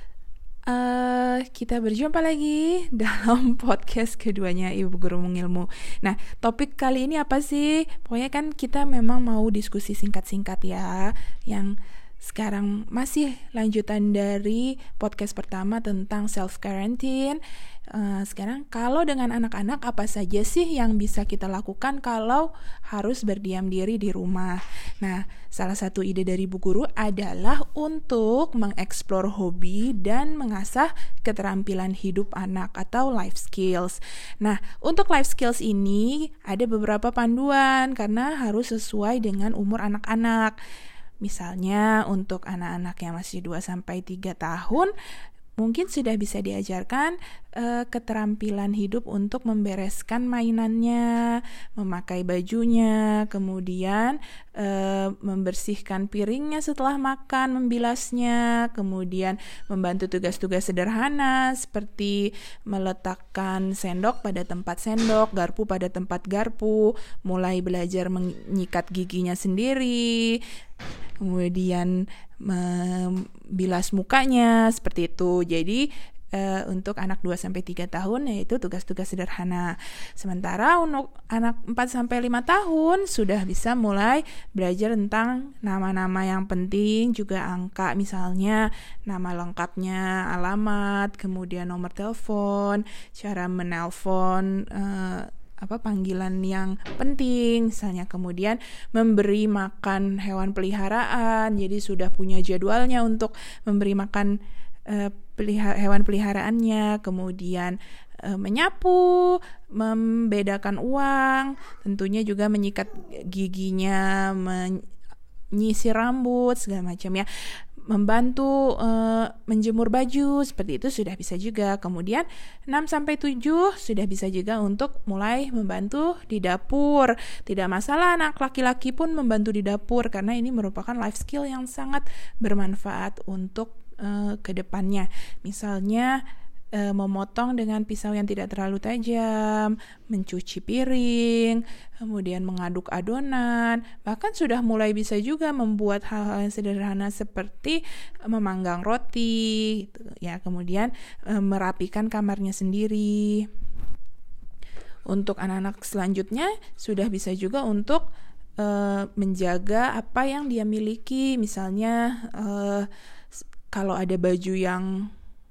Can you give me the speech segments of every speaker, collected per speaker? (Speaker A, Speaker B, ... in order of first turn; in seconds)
Speaker A: 0.7-17.4, 17.9-40.6, 41.2-44.9, 45.6-70.4, 71.2-104.3, 104.9-114.8, 115.5-117.3, 117.9-136.2, 136.7-153.5, 155.1-158.0, 158.6-162.9, 163.7-164.9